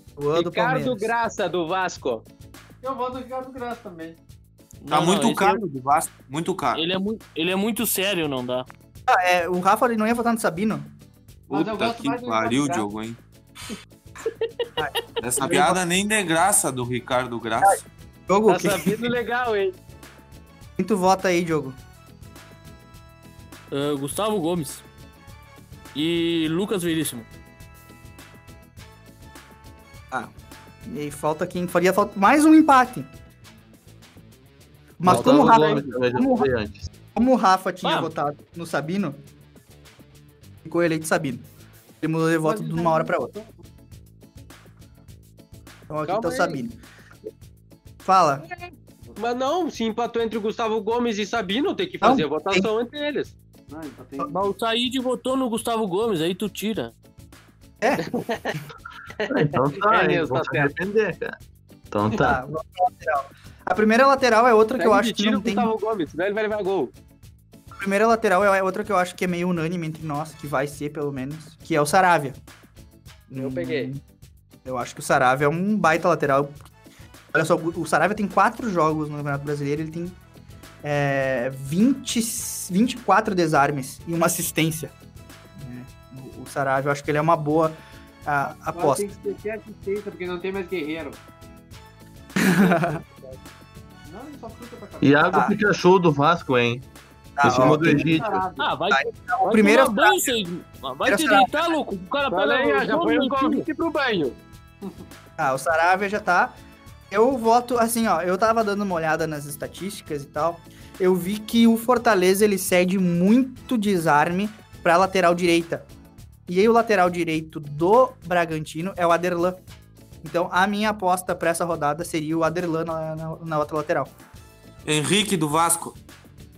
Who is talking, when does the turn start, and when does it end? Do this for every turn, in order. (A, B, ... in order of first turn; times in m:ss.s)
0:00.2-0:01.1 A
0:00.3-0:02.2 B
0:02.8-0:04.2 C
0:04.8-0:05.6 D
0:04.9-0:06.8 E
0:06.7-0:08.7 D
0:09.1-0:10.9 A
0:11.5-0:12.9 C
0:11.5-0:13.2 E
0:14.8-0:15.8 A
0:15.2-0:17.8 E
0:18.3-0:19.1 A
0:18.5-0:19.8 B
0:20.8-0:21.8 A
0:23.7-0:24.8 D
0:26.0-0:27.3 D
0:30.9-0:33.1 A
0:35.0-0:36.5 A
0:35.0-0:36.9 F
0:37.1-0:39.2 A
0:37.8-0:38.1 D
0:40.6-0:41.5 A
0:42.0-0:43.3 A
0:42.4-0:43.5 C
0:45.9-0:46.8 A
0:46.1-0:46.6 B
0:48.0-0:48.4 A
0:49.2-0:53.4 B
0:52.0-0:52.7 A
0:53.7-0:54.4 C
0:54.3-0:56.9 D
0:58.0-0:58.5 B
0:59.3-1:00.7 B
0:59.3-1:01.4 F
1:01.9-1:02.4 F
1:02.2-1:05.7 A
1:04.8-1:06.9 B
1:07.7-1:12.4 A
1:13.3-1:14.0 A
1:13.4-1:13.9 B
1:14.6-1:16.6 A
1:17.3-1:20.2 A
1:20.8-1:24.9 A
1:25.6-1:29.1 A
1:28.7-1:31.2 C
1:32.4-1:33.0 A
1:32.5-1:33.4 C
1:34.1-1:35.4 C
1:35.0-1:36.9 F
1:35.3-1:35.6 A
1:37.4-1:38.3 A
1:37.4-1:38.5 F
1:37.5-1:38.8 C
1:38.6-1:43.7 D
1:38.9-1:40.3 A
1:41.1-1:41.7 A
1:42.3-1:44.4 B
1:45.4-1:46.6 A
1:47.1-1:55.9 A
1:56.5-1:59.6 A
2:00.2-2:04.1 A
2:04.9-2:06.0 E